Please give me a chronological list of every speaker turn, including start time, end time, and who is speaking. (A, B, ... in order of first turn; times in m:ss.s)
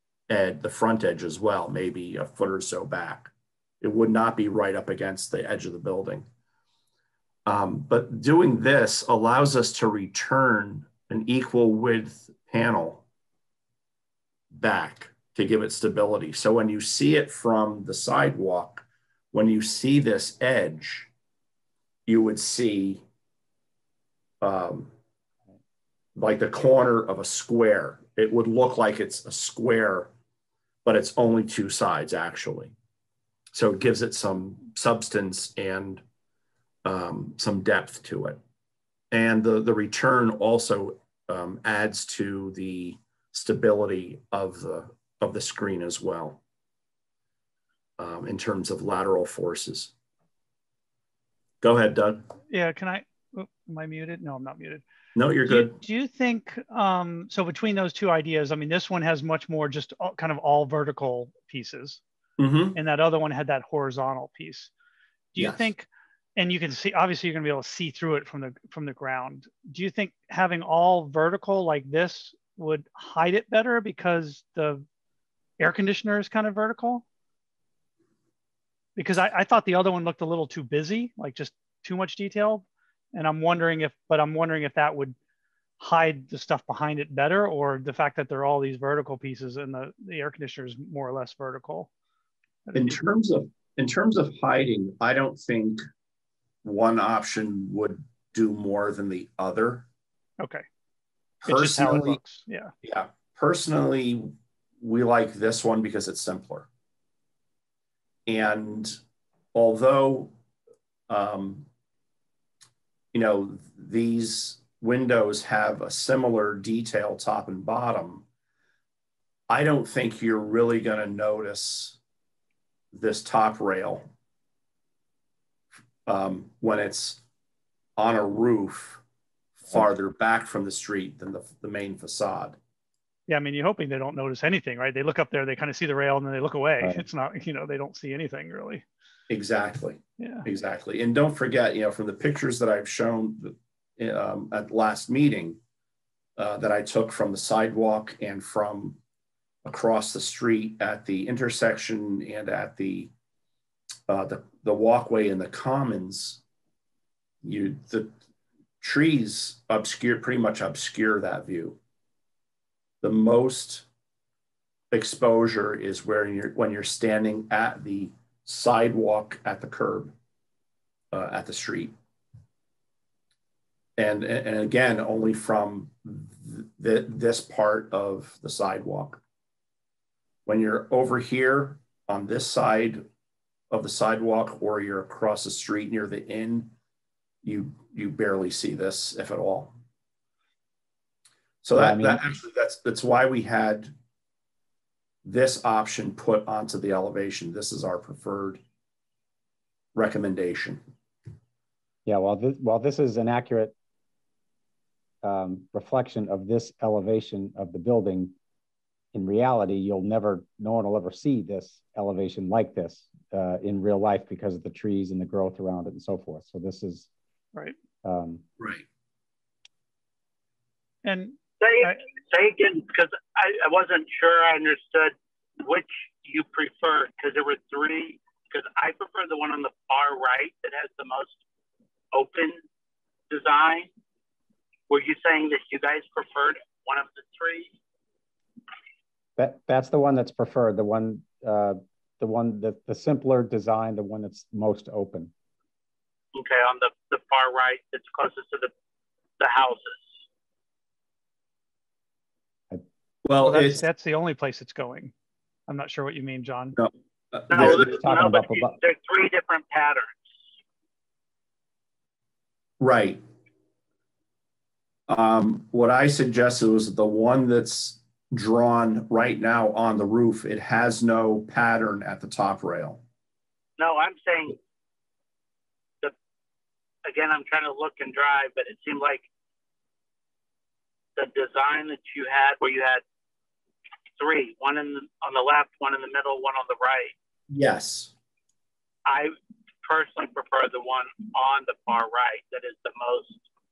0:00.3-0:06.3 A
0:07.4-0:13.0 A
0:14.5-0:21.1 A
0:22.1-0:23.0 A
0:24.4-0:24.9 A
0:26.2-0:30.1 A
0:30.8-0:32.7 A
0:33.5-0:36.0 A
0:36.8-0:38.4 A
0:39.1-0:46.4 A
0:48.0-0:49.9 A
0:51.6-0:52.3 A
0:52.5-0:54.8 B
0:55.2-0:55.8 A
0:55.4-1:02.0 B
1:02.4-1:02.8 A
1:02.7-1:04.7 B
1:05.3-1:14.8 B
1:05.4-1:05.7 A
1:15.6-1:17.0 B
1:19.0-1:25.2 B
1:25.8-1:31.9 B
1:32.6-1:33.0 B
1:32.7-1:35.8 A
1:36.6-1:39.9 A
1:41.4-1:42.2 A
1:41.4-1:42.7 B
1:42.8-1:46.7 A
1:48.3-1:49.0 A
1:49.5-1:50.3 A
1:51.1-1:51.7 A
1:53.1-1:58.2 A
1:59.5-2:02.0 A
2:02.9-2:04.1 A
2:06.0-2:07.2 A
2:08.0-2:09.0 A
2:09.6-2:12.6 A
2:13.3-2:18.8 B
2:19.3-2:25.6 A
2:20.2-2:20.4 B
2:26.4-2:29.0 A
2:29.6-2:33.1 A
2:34.1-2:36.4 A
2:37.4-2:38.1 A
2:38.8-2:41.8 A
2:43.0-2:43.9 A
2:44.9-2:50.1 A
2:51.1-2:51.9 A
2:54.0-2:59.2 A
3:00.4-3:03.0 A
3:03.7-3:06.7 A
3:07.4-3:09.7 A
3:11.6-3:13.9 A
3:11.7-3:12.2 C
3:15.2-3:18.6 A
3:19.9-3:20.8 A
3:22.0-3:23.7 C
3:25.2-3:28.3 C
3:29.1-3:37.1 C
3:38.0-3:38.4 C
3:38.6-3:38.8 A
3:41.0-3:42.0 B
3:41.6-3:51.4 D
3:52.1-3:52.6 D
3:53.3-3:53.9 D
3:54.9-3:57.7 D
3:59.4-4:05.3 C
4:06.3-4:08.7 D
4:09.4-4:10.1 D
4:13.2-4:13.8 A
4:13.4-4:15.1 B
4:15.7-4:16.8 B
4:16.8-4:17.9 A
4:17.5-4:20.2 D
4:17.6-4:18.8 C
4:22.8-4:23.2 A
4:25.1-4:33.0 A
4:33.8-4:34.6 D
4:37.0-4:39.3 D
4:41.2-4:43.0 D
4:44.2-4:47.1 D
4:47.5-4:48.1 A
4:49.0-4:49.3 D
4:49.8-4:53.4 D